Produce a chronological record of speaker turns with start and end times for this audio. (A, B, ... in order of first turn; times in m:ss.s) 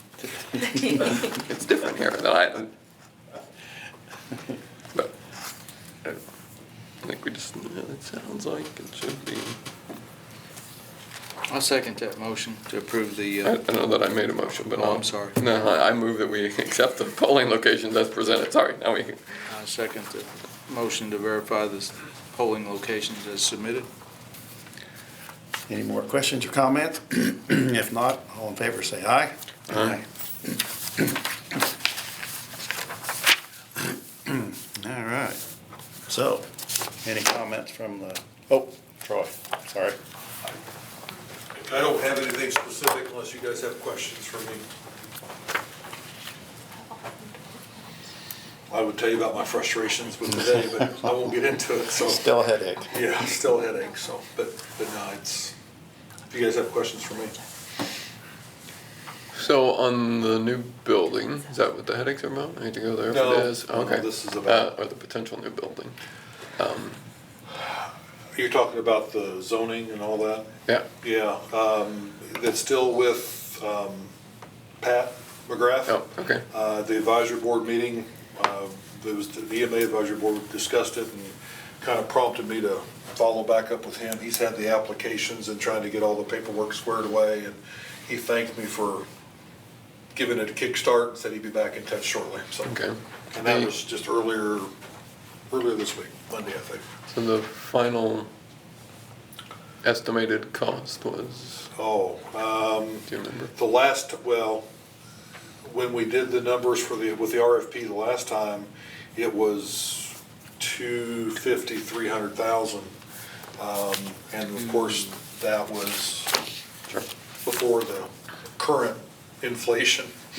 0:00.6-0:02.7 A
0:07.0-0:09.6 A
0:11.5-0:13.6 B
0:13.4-0:19.2 A
0:14.6-0:15.4 B
0:19.5-0:23.9 B
0:25.7-0:31.2 C
0:33.8-0:35.4 C
0:36.1-0:36.5 C
0:37.0-0:40.0 C
0:41.5-0:44.6 D
0:48.7-0:52.3 D
0:50.5-0:51.1 C
0:52.0-0:53.0 C
0:52.9-0:55.5 D
0:56.3-0:57.4 D
0:59.3-1:06.0 A
1:03.1-1:04.7 D
1:06.6-1:07.0 A
1:08.3-1:10.5 D
1:11.0-1:14.1 D
1:14.8-1:29.1 D
1:15.9-1:16.4 A
1:30.1-1:32.7 D
1:32.6-1:33.7 A
1:33.3-1:34.7 D
1:35.5-1:36.8 D
1:37.1-1:38.3 A
1:39.8-1:41.7 A
1:41.8-1:44.6 D
1:43.1-1:43.5 A
1:45.6-1:52.9 D
1:53.6-1:56.4 D
1:57.4-2:00.1 D